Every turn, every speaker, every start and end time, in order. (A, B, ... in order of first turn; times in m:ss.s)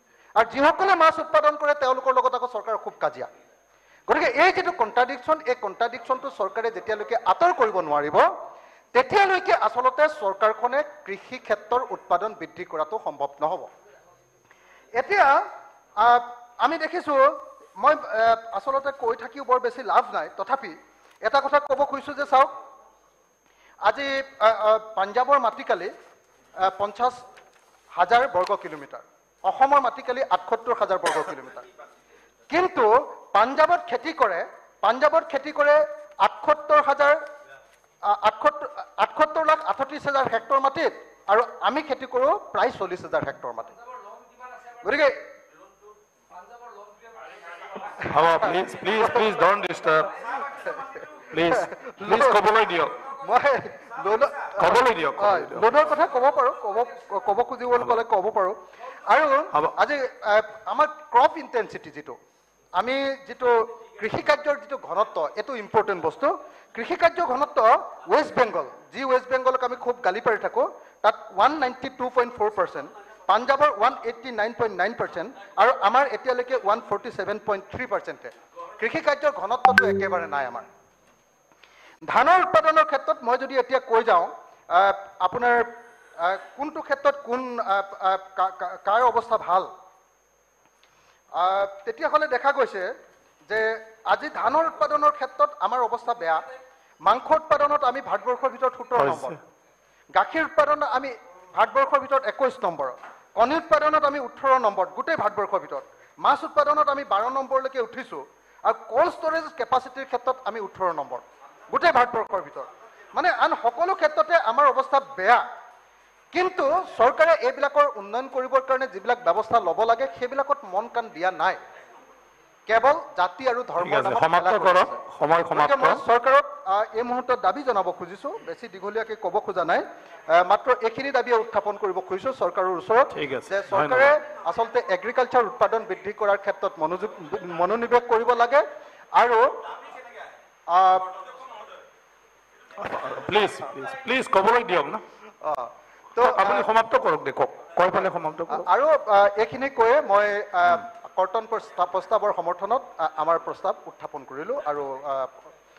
0:00.4-0:03.3 A
0:04.1-0:08.3 A
0:08.9-0:13.7 A
0:15.0-0:15.4 A
0:16.0-0:22.5 A
0:23.8-0:25.9 A
0:26.6-0:27.2 A
0:28.0-0:31.6 A
0:32.5-0:37.2 A
0:38.1-0:43.8 A
0:44.8-0:45.2 A
0:47.9-0:50.1 B
0:51.3-0:53.0 B
0:51.5-0:52.4 A
0:53.1-1:02.2 A
0:54.6-0:55.8 B
1:02.8-1:20.7 A
1:22.1-1:29.7 A
1:31.3-1:32.9 A
1:33.5-1:36.4 A
1:37.0-1:39.4 A
1:39.0-1:39.4 B
1:40.1-1:55.4 A
1:56.3-2:01.6 A
2:02.7-2:05.0 A
2:03.8-2:06.0 B
2:05.5-2:18.6 A
2:13.1-2:14.1 B
2:19.2-2:19.4 A
2:20.7-2:21.1 A
2:22.8-2:25.0 B
2:25.4-2:26.7 A
2:26.2-2:28.7 B
2:28.5-2:35.4 A